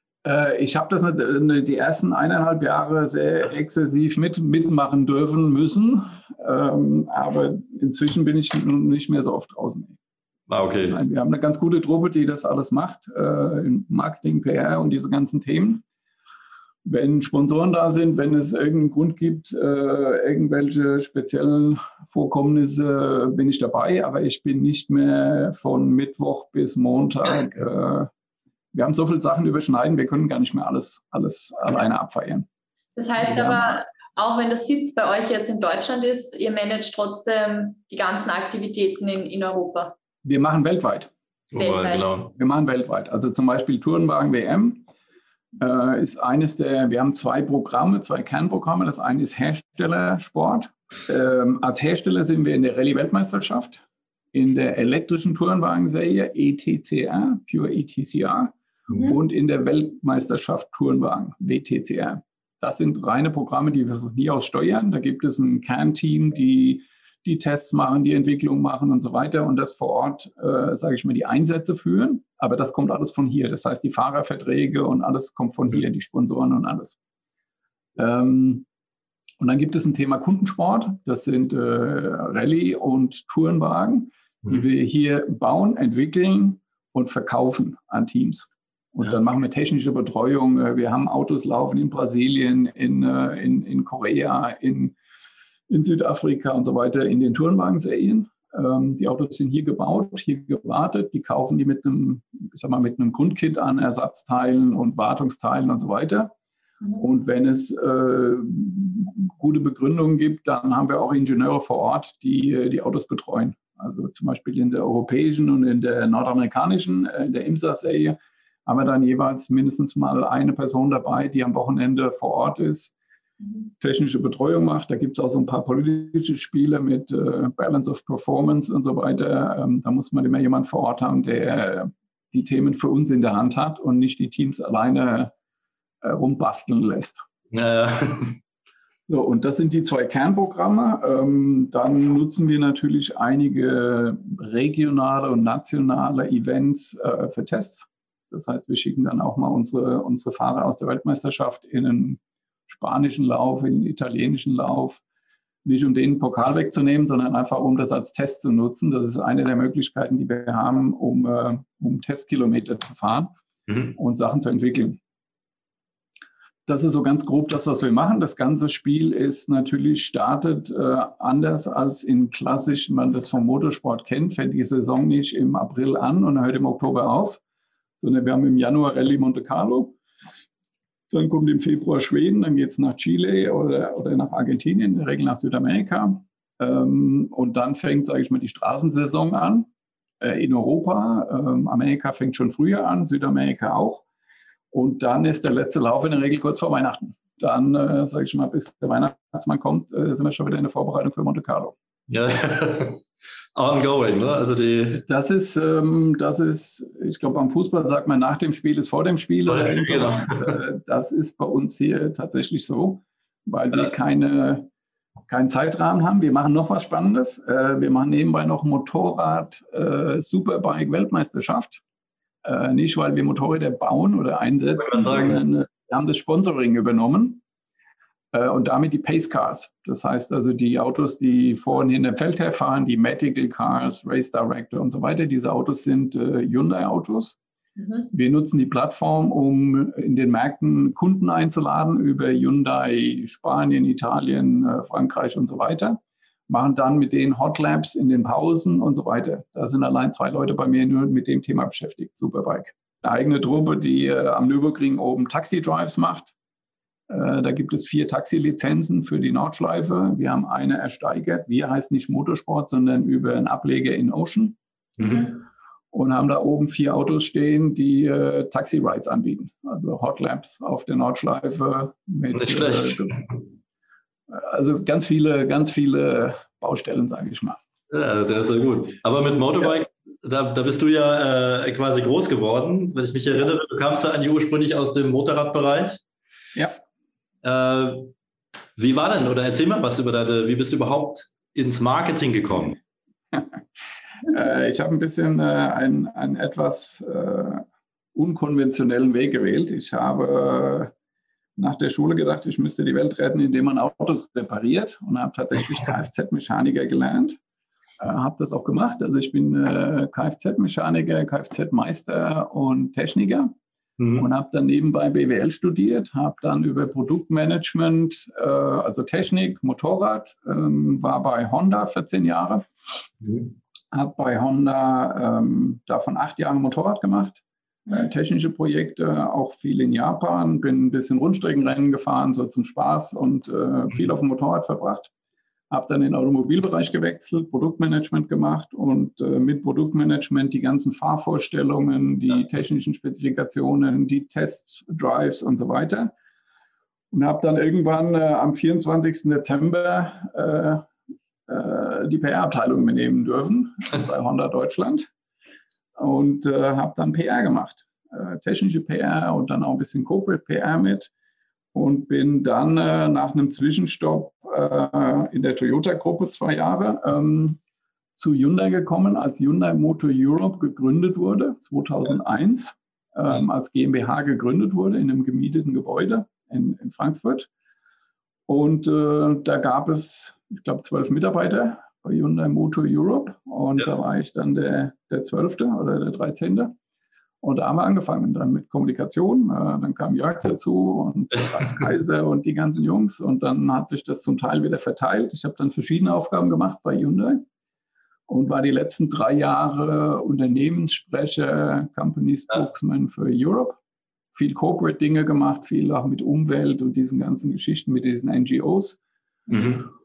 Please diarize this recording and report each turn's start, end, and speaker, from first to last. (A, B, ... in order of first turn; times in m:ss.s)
0:00.2-0:10.0 A
0:10.5-0:11.0 B
0:10.9-0:15.8 A
0:16.8-0:28.1 A
0:28.7-0:32.5 A
0:33.0-0:39.9 C
0:33.2-0:33.8 A
0:40.2-0:41.1 A
0:41.5-0:42.3 B
0:41.6-0:42.1 C
0:42.4-0:44.9 A
0:45.6-1:17.0 A
0:58.9-0:59.2 C
1:18.0-1:18.7 A
1:19.4-1:35.0 A
1:35.7-1:46.3 A
1:47.0-2:02.9 A
2:03.8-2:15.3 A
2:16.0-2:17.2 A
2:17.5-2:18.4 B
2:19.1-2:35.0 A
2:35.6-2:43.3 A
2:43.7-2:43.9 B
2:44.0-2:45.0 A
2:46.7-2:57.4 A
2:58.0-3:00.0 A
3:01.1-3:09.7 A
3:10.2-3:14.0 A
3:14.7-3:21.8 A
3:22.1-3:25.0 B
3:25.1-3:34.7 A
3:29.5-3:30.5 B
3:35.3-3:41.8 A
3:42.4-3:47.4 A
3:44.8-3:45.4 B
3:48.3-3:57.4 A
3:57.8-3:58.1 C
3:58.1-4:16.3 A
4:17.1-4:24.6 A
4:25.0-4:25.3 B
4:25.9-4:33.2 A
4:32.3-4:33.4 B
4:34.3-4:37.6 A
4:37.9-4:46.0 B
4:47.4-4:48.1 B
4:48.8-4:52.8 B
4:54.3-5:00.9 A
5:01.6-5:07.4 A
5:08.0-5:13.5 A
5:14.0-5:14.3 B
5:14.2-5:22.7 A
5:23.2-5:23.5 B
5:23.9-5:35.1 A
5:35.7-5:46.1 A
5:47.1-5:50.9 A
5:51.5-5:55.1 A
5:56.0-6:01.1 A
6:01.7-6:07.6 A
6:08.2-6:17.5 A
6:18.5-6:26.8 A
6:27.4-6:37.4 A
6:38.3-6:43.8 A
6:44.3-6:49.0 A
6:49.5-6:49.9 B